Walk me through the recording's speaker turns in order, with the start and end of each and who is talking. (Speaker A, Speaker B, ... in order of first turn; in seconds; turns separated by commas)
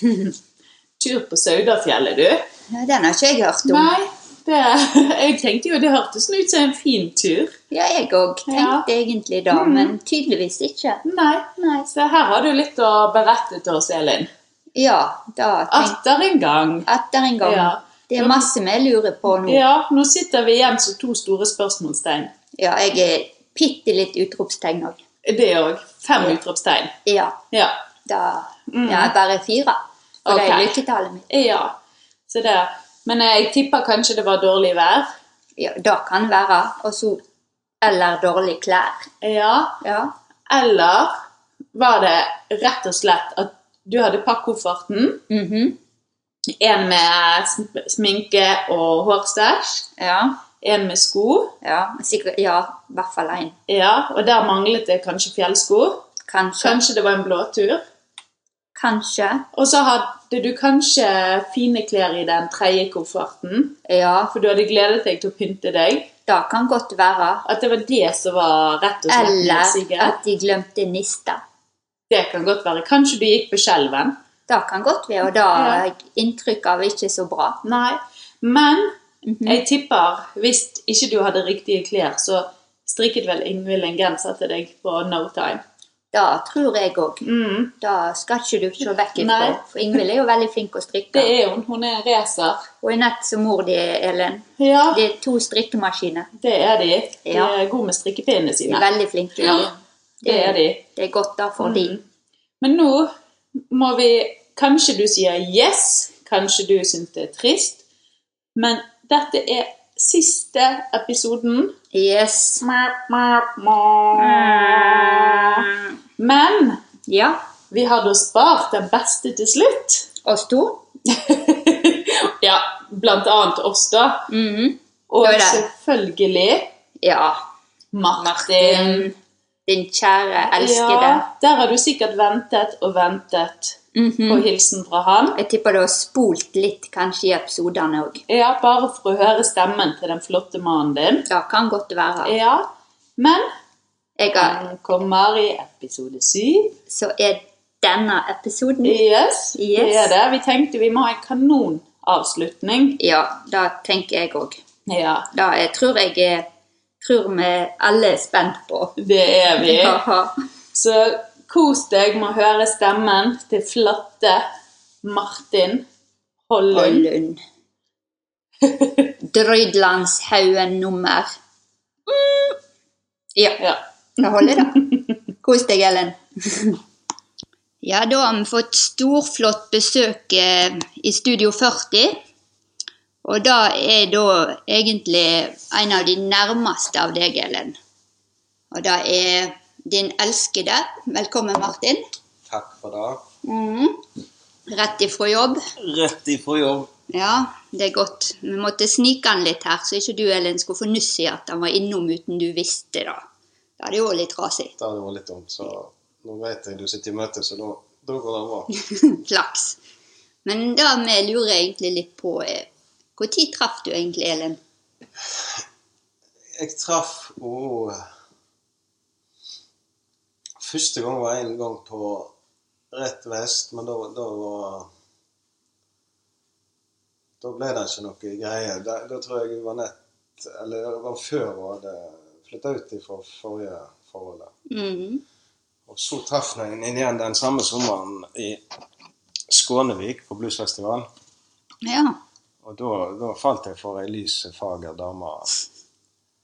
Speaker A: 1.0-2.4, Speaker B: 2.7-3.9, Speaker A: 3.6-7.5, Speaker B: 7.7-11.0, Speaker A: 8.5-8.8, Speaker A: 9.5-9.9, Speaker A: 11.0-14.3, Speaker B: 14.7-15.9, Speaker A: 15.7-16.9, Speaker B: 16.9-19.6, Speaker A: 17.4-18.5, Speaker A: 19.3-22.3, Speaker B: 22.6-25.0, Speaker A: 25.2-26.9, Speaker B: 27.1-27.4, Speaker A: 27.5-27.8, Speaker B: 28.1-31.2, Speaker A: 28.7-29.1, Speaker A: 30.2-30.8, Speaker A: 31.3-31.7, Speaker A: 32.3-35.1, Speaker B: 35.6-37.2, Speaker B: 37.8-39.1, Speaker A: 39.2-39.8, Speaker B: 39.8-40.1, Speaker A: 40.5-41.2, Speaker A: 41.7-45.2, Speaker B: 45.3-45.8, Speaker A: 46.6-49.9, Speaker B: 50.0-50.4, Speaker A: 50.6-51.5, Speaker B: 51.6-53.5, Speaker A: 53.7-56.0, Speaker B: 56.3-56.8, Speaker A: 56.6-57.8, Speaker B: 58.8-59.4, Speaker A: 59.5-63.8, Speaker B: 63.9-64.3, Speaker A: 64.3-66.1, Speaker B: 66.2-67.4, Speaker A: 67.5-70.1, Speaker B: 69.1-71.4, Speaker A: 72.1-74.2, Speaker B: 74.5-77.6, Speaker A: 75.5-75.8, Speaker A: 77.6-78.9, Speaker B: 79.2-79.6, Speaker A: 79.5-85.6, Speaker B: 86.1-87.2, Speaker A: 87.2-87.7, Speaker B: 87.8-91.3, Speaker A: 89.2-90.0, Speaker A: 91.1-92.7, Speaker B: 92.8-96.3, Speaker A: 94.6-95.0, Speaker A: 96.4-98.9, Speaker B: 97.3-97.5, Speaker B: 98.7-102.0, Speaker A: 99.4-99.7, Speaker A: 100.2-100.8, Speaker A: 101.6-102.0, Speaker A: 102.6-103.1, Speaker A: 103.7-107.8, Speaker A: 108.5-111.7, Speaker B: 111.9-112.6, Speaker A: 112.6-115.7, Speaker B: 114.2-115.8, Speaker A: 116.2-116.8, Speaker B: 117.0-117.4, Speaker A: 117.7-120.1, Speaker B: 120.2-120.8, Speaker A: 121.1-124.3, Speaker B: 124.3-125.6, Speaker A: 125.1-126.7, Speaker B: 127.0-127.4, Speaker A: 127.9-129.1, Speaker B: 128.2-129.1, Speaker B: 129.7-131.2, Speaker A: 130.5-135.4, Speaker B: 133.9-134.5, Speaker B: 135.3-138.2, Speaker A: 138.3-141.3, Speaker B: 141.3-142.3, Speaker A: 142.2-143.5, Speaker B: 144.2-144.6, Speaker A: 144.3-146.8, Speaker B: 146.9-149.0, Speaker A: 148.8-153.0, Speaker B: 149.6-150.1, Speaker B: 153.0-154.6, Speaker A: 154.9-155.3, Speaker B: 155.3-156.4, Speaker B: 157.0-158.9, Speaker A: 159.0-160.0, Speaker B: 159.6-160.3, Speaker A: 160.7-164.4, Speaker A: 165.0-165.8, Speaker A: 166.5-167.1, Speaker B: 166.7-167.4, Speaker A: 168.6-169.1, Speaker B: 169.2-171.3, Speaker B: 173.3-173.6, Speaker B: 174.2-174.9, Speaker A: 174.4-174.8, Speaker B: 175.4-176.8, Speaker B: 177.8-182.2, Speaker B: 183.2-187.8, Speaker B: 188.7-192.0, Speaker C: 192.5-193.2, Speaker B: 193.4-194.0, Speaker B: 194.7-195.6, Speaker C: 195.8-196.9, Speaker B: 197.1-203.2, Speaker B: 203.8-204.7, Speaker C: 204.8-208.7, Speaker B: 208.9-209.8, Speaker B: 210.4-214.6, Speaker C: 216.6-218.0, Speaker C: 220.6-222.3, Speaker C: 222.9-224.9, Speaker C: 227.4-234.5, Speaker B: 234.7-235.2, Speaker C: 235.9-238.6, Speaker C: 239.5-241.1, Speaker B: 241.8-242.2, Speaker C: 242.6-245.6